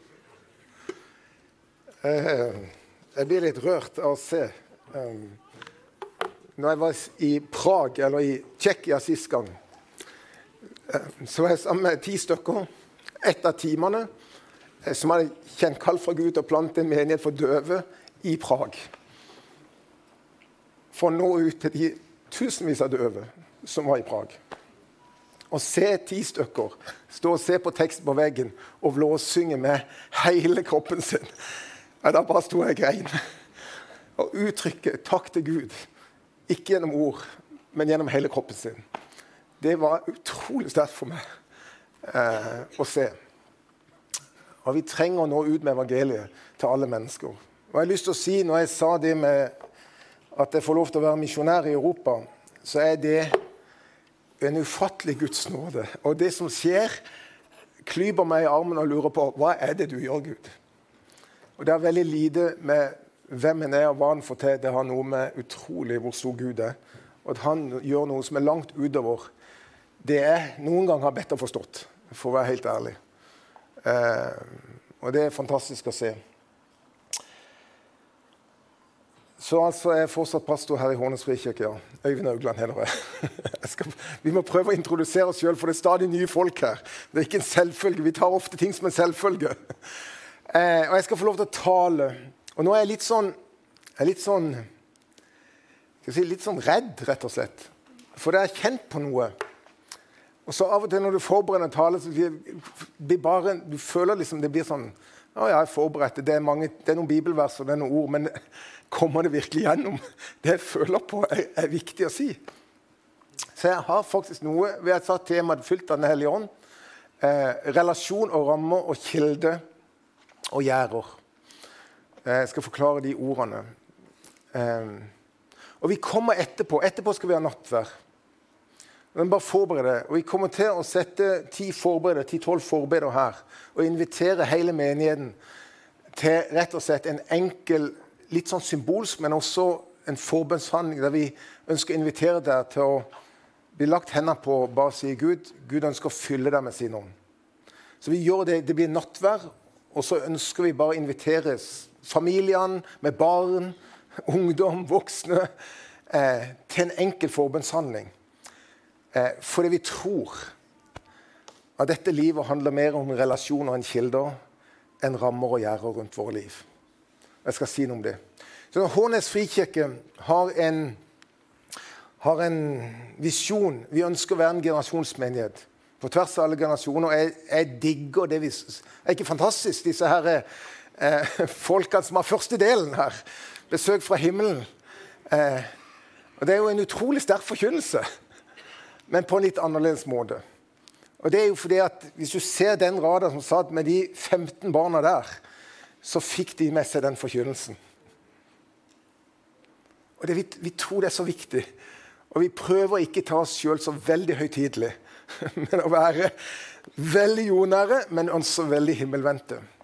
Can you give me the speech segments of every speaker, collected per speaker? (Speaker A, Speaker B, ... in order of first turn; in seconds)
Speaker A: 2.0-5.4, 6.6-9.5, 10.9-12.7, 13.2-14.1, 14.8-18.9, 20.9-24.4, 25.5-31.3, 32.0-33.2, 34.2-35.9, 36.5-38.8, 39.6-41.2, 42.0-43.2, 44.6-49.5, 50.3-53.4, 54.4-57.0, 57.8-60.5, 61.6-69.3, 70.0-73.0, 73.8-76.2, 79.4-89.6, 90.5-93.3, 94.0-94.7, 96.0-99.3, 100.5-108.3, 108.9-112.4, 113.6-116.5, 117.2-119.6, 120.5-121.2, 122.2-123.7, 124.5-125.1, 125.8-127.9, 129.1-135.4, 136.1-143.1, 143.8-147.1, 148.0-155.5, 156.1-158.1, 159.1-160.5, 161.8-164.4, 165.0-166.7, 167.4-168.2, 168.7-171.0, 172.2-180.5, 181.0-184.7, 185.3-185.7, 186.4-188.1, 189.1-190.4, 191.2-195.4, 196.0-197.8, 200.2-201.7, 202.3-206.3, 206.9-209.6